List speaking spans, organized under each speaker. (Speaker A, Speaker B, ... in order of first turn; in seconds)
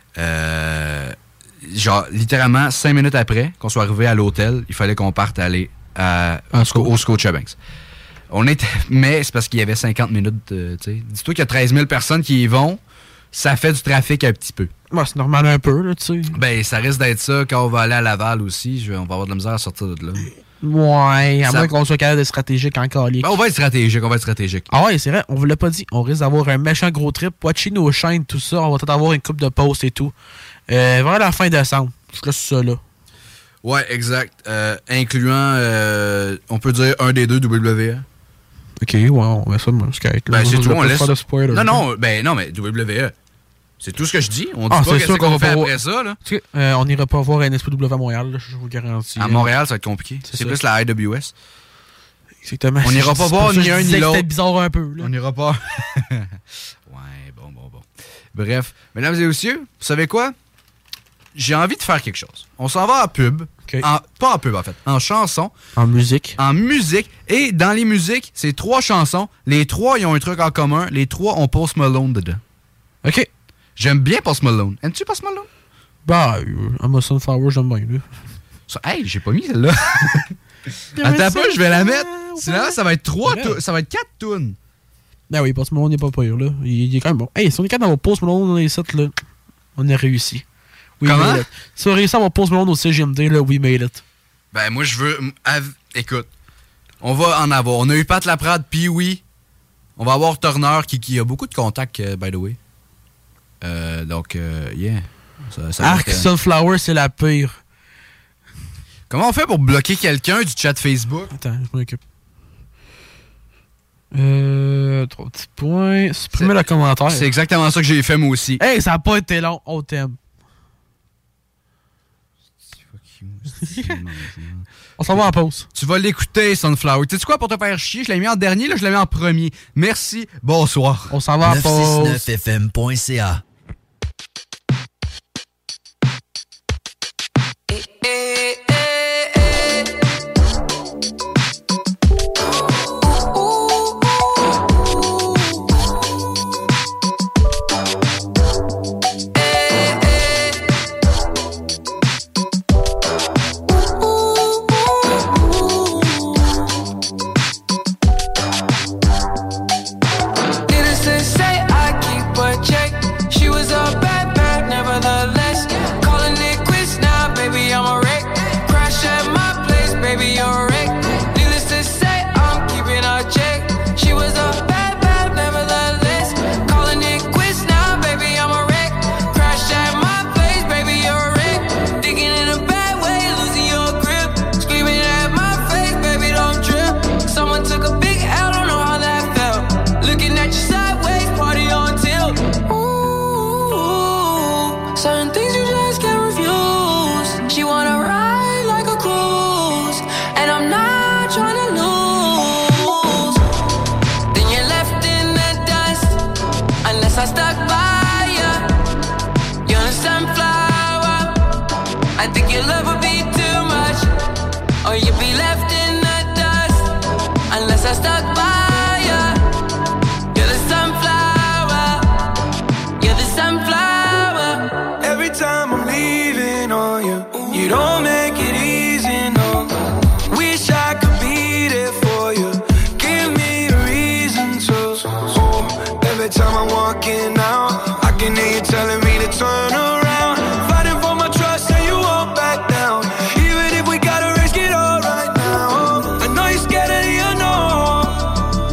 Speaker A: 0.2-7.6, 8.3-12.8, 13.3-14.7, 16.3-20.3, 21.4-21.7, 23.2-24.7, 33.6-38.0, 40.3-43.1, 43.8-46.2, 49.2-51.3, 52.8-54.3, 55.0-56.3, 56.9-60.3, 61.4-65.5, 66.4-72.4, 73.8-75.5, 78.7-80.3, 81.0-84.6, 91.0-91.5, 94.5-96.3, 97.0-99.2, 100.0-102.6, 103.6-106.3, 109.1-111.3, 117.1-118.6, 122.9-124.7, 125.7-131.1
Speaker B: 6.5-6.9, 14.9-16.4, 20.6-23.3, 24.7-30.1, 30.7-32.8, 38.8-41.8, 44.7-49.5, 50.3-50.6, 52.5-55.1, 65.8-66.4, 73.0-73.3, 76.0-78.0, 81.0-83.6, 85.3-89.1, 89.8-90.4, 91.0-94.0, 105.8-107.6, 111.3-112.0, 114.1-117.3, 118.6-120.2, 123.7-124.0, 125.0-125.7, 131.1-132.3
Speaker C: 131.4-133.4
Speaker D: 137.7-139.9, 142.4-145.6, 149.4-150.7, 154.0-156.4, 160.7-203.4, 204.3-206.2, 206.8-208.7, 209.7-211.4, 212.2-214.1, 214.8-216.9, 217.5-219.4, 220.3-222.1, 223.0-224.8
Speaker E: 225.0-229.7, 230.3-248.3